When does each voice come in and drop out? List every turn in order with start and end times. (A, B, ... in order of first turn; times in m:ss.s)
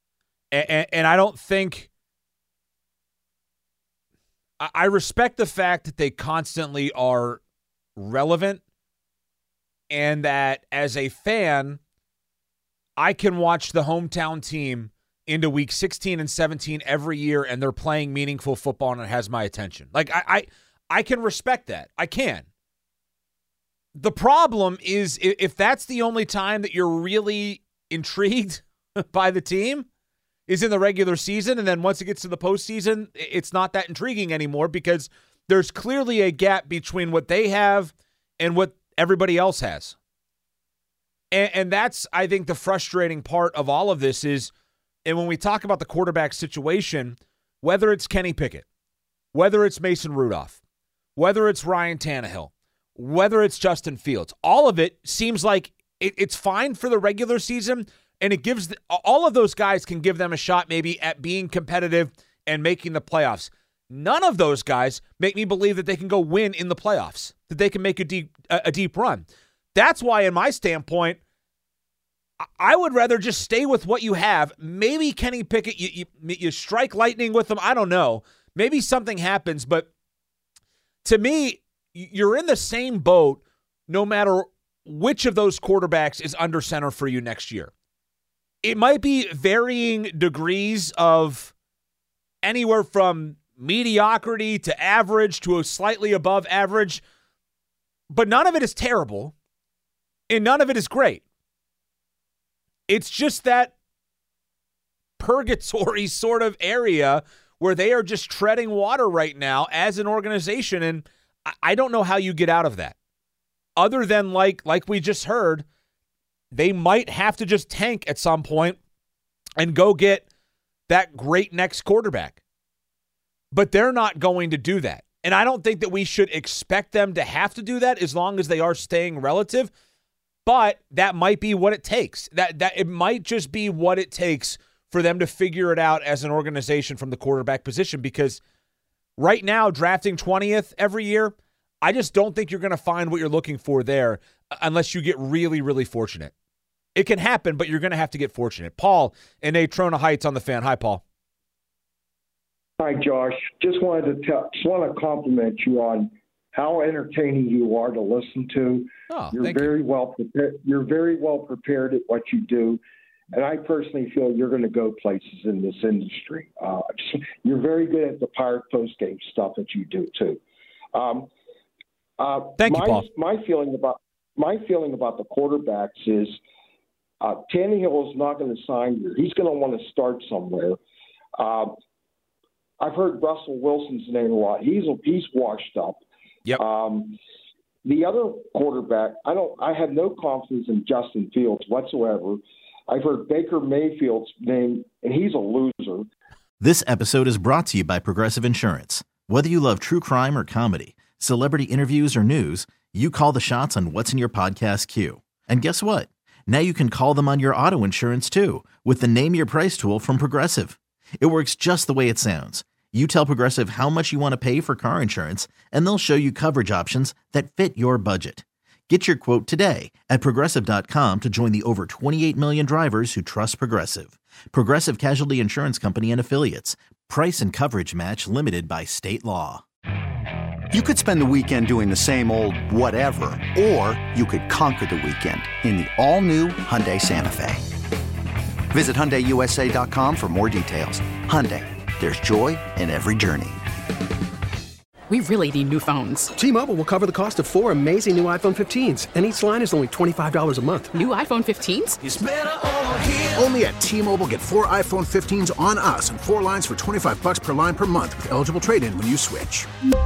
0:00.5-0:01.9 A
0:04.6-0:07.4 A
0:08.0-0:08.6 A
0:09.9-0:11.8 A
0:13.0-0:22.5 A
0:24.0-0:29.9 A
0:30.5-0:40.0 A
0:41.3-0:44.5 A
0:45.0-0:48.6 A
0:49.3-0:50.6 A
0:51.2-1:11.2 A
1:12.6-1:19.9 A
1:21.0-1:27.7 A
1:28.6-1:31.5 A
1:32.4-1:37.0 A
1:38.1-1:39.3 A
1:40.3-1:41.2 A
1:42.9-1:43.7 A
1:45.2-1:53.0 A
1:53.8-1:55.6 A
1:56.5-1:58.8 A
1:59.6-2:00.2 A
2:00.9-2:02.4 A
2:03.5-2:09.7 A
2:10.5-2:18.4 A
2:19.2-2:26.3 A
2:27.0-2:31.0 A
2:32.8-2:42.8 B
2:39.1-2:39.7 A
2:43.3-2:50.4 B
2:50.9-2:51.3 B
2:52.2-2:56.4 B
2:52.6-2:53.0 A
2:57.2-3:00.8 B
3:01.4-3:01.8 B
3:02.8-3:06.0 B
3:06.6-3:07.2 B
3:07.8-3:16.1 B
3:16.6-3:49.6 C
3:50.7-3:57.6 D
3:58.7-4:03.6 D
4:05.1-4:06.3 E
4:06.4-4:11.0 F
4:10.9-4:12.0 E
4:12.0-4:19.7 G